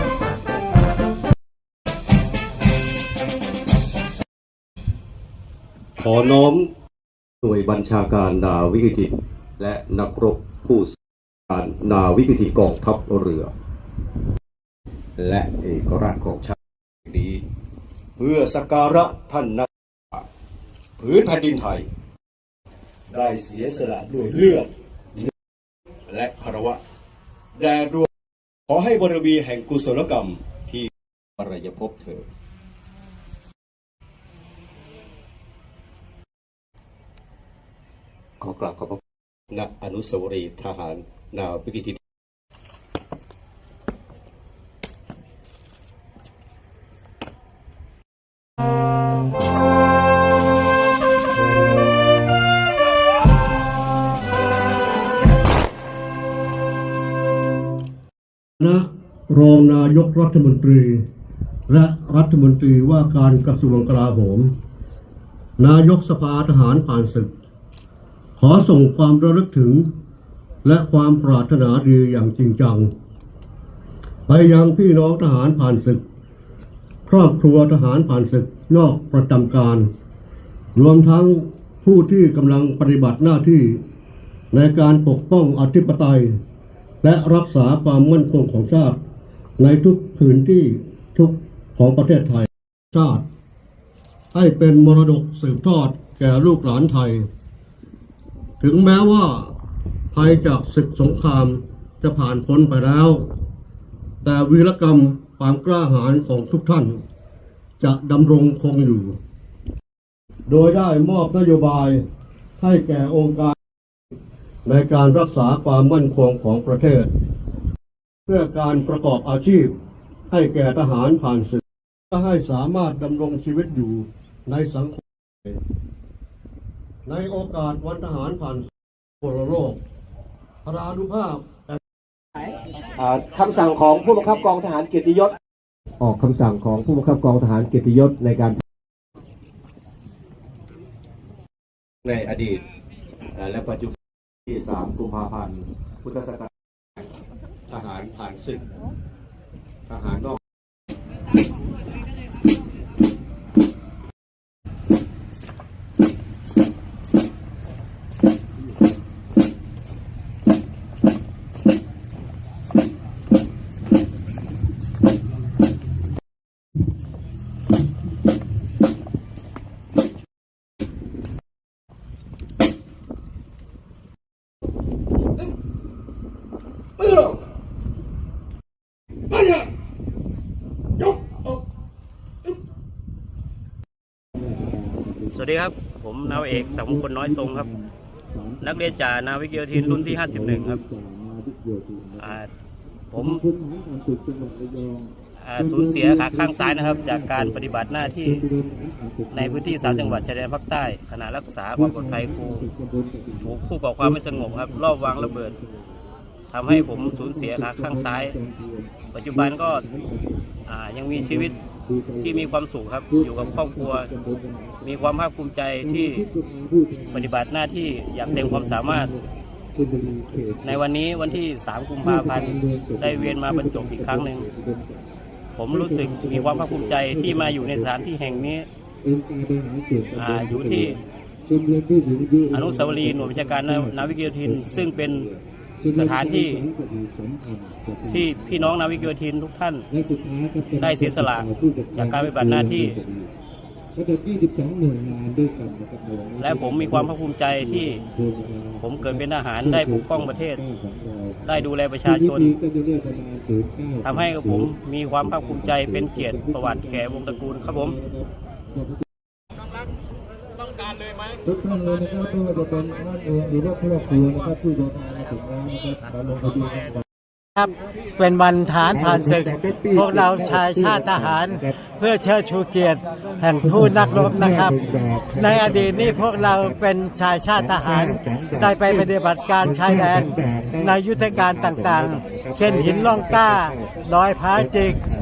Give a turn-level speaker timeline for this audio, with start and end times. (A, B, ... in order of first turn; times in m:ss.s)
0:06.0-0:06.7 A
0:07.4-0:11.0 A
0:11.5-0:13.5 A
0:15.2-0:17.4 A
0:18.2-0:20.2 A
0:21.0-0:21.9 A
0:23.1-0:25.3 A
0:26.1-0:26.8 A
0:27.6-0:28.1 A
0:28.7-0:32.3 A
0:38.4-0:39.0 A
0:39.5-0:42.0 A
0:58.6-1:01.1 B
1:01.7-1:04.5 B
1:05.6-1:07.3 B
1:08.4-1:09.9 B
1:10.6-1:12.9 B
1:14.3-1:16.0 B
1:17.1-1:19.9 B
1:20.8-1:23.8 B
1:24.5-1:26.4 B
1:27.0-1:29.0 B
1:29.6-1:33.2 B
1:34.3-1:37.3 B
1:38.6-1:39.5 B
1:40.1-1:43.3 B
1:44.2-1:47.0 B
1:47.8-1:49.2 B
1:50.5-1:52.0 B
1:52.6-1:53.6 B
1:54.6-1:57.1 B
1:58.3-1:59.8 B
2:00.3-2:05.6 B
2:07.0-2:08.7 B
2:09.2-2:09.8 B
2:10.6-2:11.8 B
2:13.0-2:15.4 A
2:16.0-2:18.6 A
2:22.0-2:22.6 A
2:23.4-2:23.9 A
2:24.5-2:27.1 A
2:27.7-2:28.6 A
2:29.9-2:30.4 A
3:04.4-3:05.4 C
3:05.3-3:07.7 D
3:06.2-3:08.8 C
3:08.6-3:10.8 D
3:09.6-3:12.4 C
3:12.2-3:12.5 D
3:13.1-3:13.4 D
3:13.1-3:20.2 C
3:15.4-3:18.4 D
3:19.3-3:22.6 D
3:21.8-3:26.0 C
3:23.4-3:25.6 D
3:26.5-3:28.4 D
3:26.7-3:30.6 C
3:29.1-3:29.9 D
3:30.7-3:31.6 D
3:31.1-3:32.5 C
3:32.2-3:34.1 D
3:33.1-3:35.0 C
3:34.8-3:36.2 D
3:35.8-3:37.3 C
3:37.1-3:39.1 D
3:38.3-3:40.8 C
3:40.6-3:44.5 D
3:42.0-3:45.1 C
3:45.6-3:48.7 D
3:45.7-3:48.4 C
3:49.0-3:58.8 C
3:50.1-3:51.0 D
3:52.5-3:55.3 D
3:55.9-3:56.6 D
3:58.1-3:59.9 D
3:59.9-4:03.3 C
4:00.7-4:03.0 D
4:04.0-4:07.1 C
4:06.4-4:08.0 D
4:07.6-4:19.0 C
4:08.8-4:10.6 D
4:11.4-4:12.6 D
4:14.0-4:18.0 D
4:21.4-4:27.0 C
4:27.6-4:45.0 E
4:38.2-4:38.6 C
4:42.3-4:42.5 C